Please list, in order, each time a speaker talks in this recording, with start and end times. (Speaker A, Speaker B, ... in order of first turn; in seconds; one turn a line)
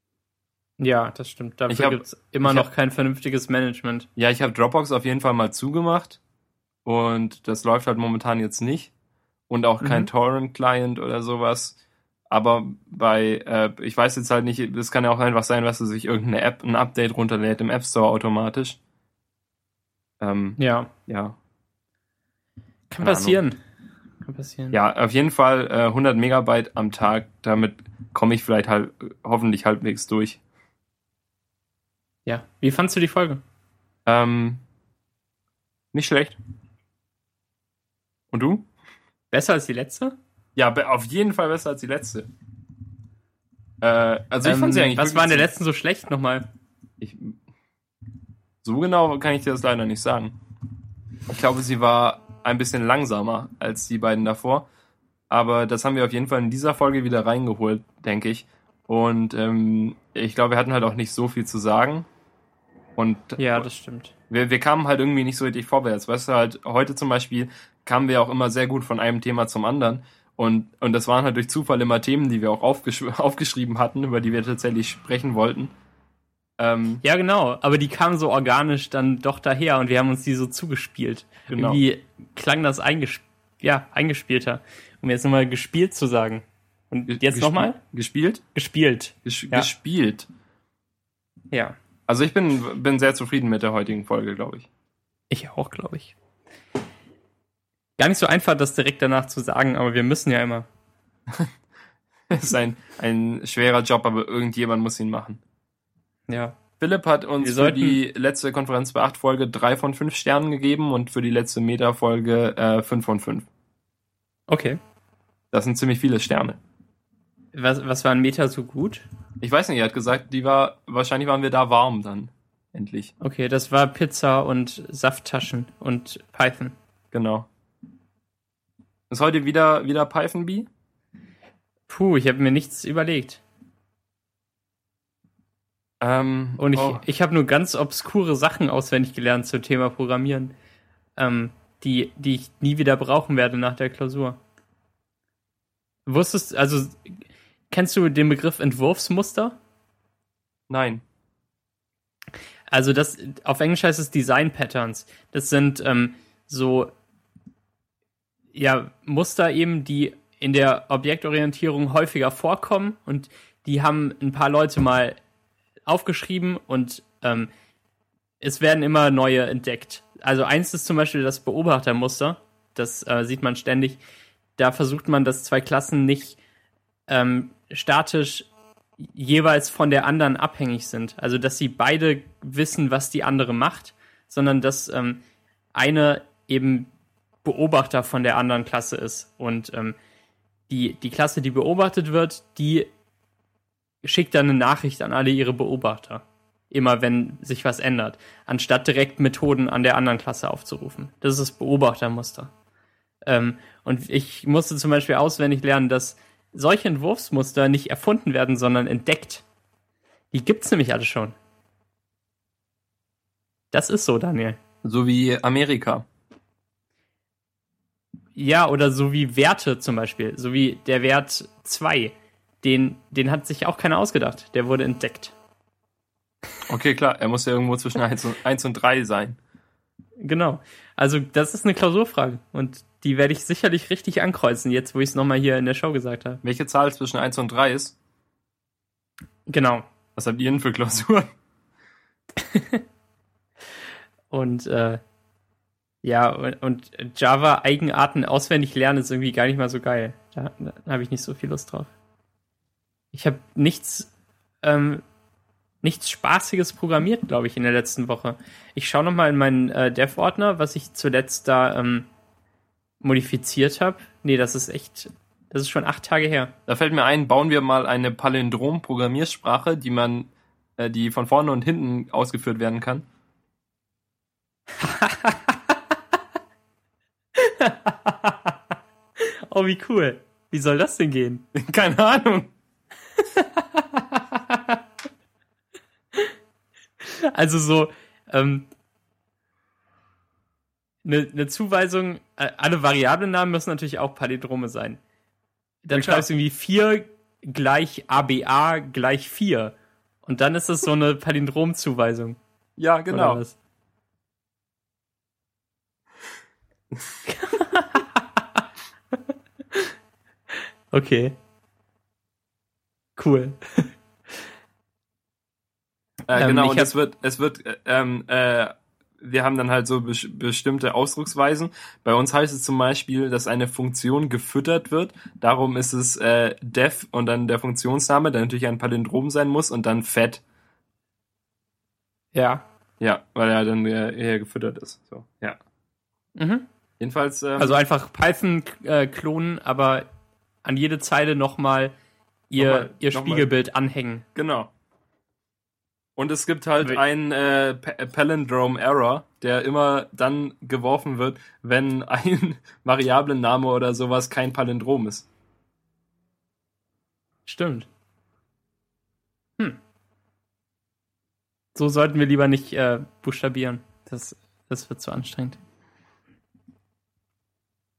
Speaker A: 0.8-4.1
Speaker B: 1.7-2.7
Speaker B: 4.2-6.2
Speaker B: 6.8-8.9
Speaker B: 9.5-11.8
Speaker A: 9.8-10.1
Speaker B: 12.3-18.8
Speaker B: 20.2-21.4
Speaker A: 20.6-20.9
Speaker A: 22.9-23.6
Speaker B: 23.0-23.4
Speaker A: 24.2-24.8
Speaker B: 24.7-30.4
Speaker A: 32.2-33.4
Speaker B: 34.0-34.6
Speaker B: 35.9-36.4
Speaker B: 38.3-38.6
Speaker A: 39.3-40.1
Speaker B: 40.5-42.3
Speaker B: 43.8-45.5
Speaker A: 44.4-46.5
Speaker B: 47.0-47.4
Speaker B: 48.6-50.4
Speaker B: 51.3-54.7
Speaker B: 55.3-62.1
Speaker B: 63.0-63.7
Speaker A: 63.4-64.1
Speaker B: 64.3-75.7
Speaker B: 76.6-77.0
Speaker A: 77.0-87.8
Speaker B: 81.5-81.8
Speaker B: 87.1-88.4
Speaker A: 88.5-89.7
Speaker B: 89.2-90.3
Speaker A: 91.5-91.8
Speaker B: 92.1-94.7
Speaker A: 95.3-96.1
Speaker A: 98.0-100.7
Speaker B: 102.3-105.4
Speaker A: 106.3-106.5
Speaker B: 106.8-113.5
Speaker A: 107.4-108.0
Speaker A: 114.5-114.8
Speaker B: 115.5-116.6
Speaker A: 117.5-119.1
Speaker B: 119.4-123.1
Speaker A: 123.2-126.8
Speaker B: 127.1-127.5
Speaker B: 129.1-130.7
Speaker A: 131.9-133.4
Speaker B: 136.0-137.0
Speaker A: 136.6-140.5
Speaker A: 141.2-144.4
Speaker A: 146.1-147.1
Speaker A: 147.7-149.6
Speaker B: 150.7-151.0
Speaker A: 152.7-156.9
Speaker A: 158.5-165.2
Speaker A: 165.9-167.5
Speaker A: 168.4-174.0
Speaker A: 174.6-176.4
Speaker A: 177.1-185.2
Speaker A: 185.7-186.9
Speaker A: 187.4-190.0
Speaker A: 190.7-192.9
Speaker A: 194.0-202.5
Speaker A: 203.2-209.4
Speaker A: 210.3-211.3
Speaker A: 213.7-214.6
Speaker B: 214.8-216.1
Speaker A: 218.3-225.3
Speaker B: 226.7-229.4
Speaker A: 230.2-236.4
Speaker B: 236.4-237.9
Speaker A: 239.5-239.8
Speaker B: 240.2-241.3
Speaker A: 242.5-242.8
Speaker A: 244.3-245.0
Speaker A: 246.0-251.9
Speaker A: 253.1-254.1
Speaker A: 254.6-255.0
Speaker A: 255.8-262.1
Speaker A: 263.0-266.5
Speaker B: 266.7-273.0
Speaker A: 274.8-275.7
Speaker A: 277.4-278.5
Speaker A: 279.5-281.4
Speaker B: 281.5-282.5
Speaker A: 283.3-284.8
Speaker A: 287.0-288.7
Speaker A: 291.0-295.0
Speaker A: 295.8-302.4
Speaker B: 295.9-296.3
Speaker B: 302.8-303.4
Speaker A: 303.1-303.6
Speaker A: 307.2-308.6
Speaker A: 310.9-311.4
Speaker A: 313.2-313.9
Speaker B: 316.3-330.4
Speaker A: 316.3-316.9
Speaker A: 332.3-332.6
Speaker B: 333.0-335.6
Speaker A: 336.4-336.6
Speaker B: 337.0-337.8
Speaker A: 337.6-340.1
Speaker A: 340.6-341.9
Speaker A: 342.5-344.2
Speaker B: 342.6-343.5
Speaker B: 344.3-344.7
Speaker B: 346.2-355.3
Speaker A: 357.5-357.9
Speaker A: 361.7-365.6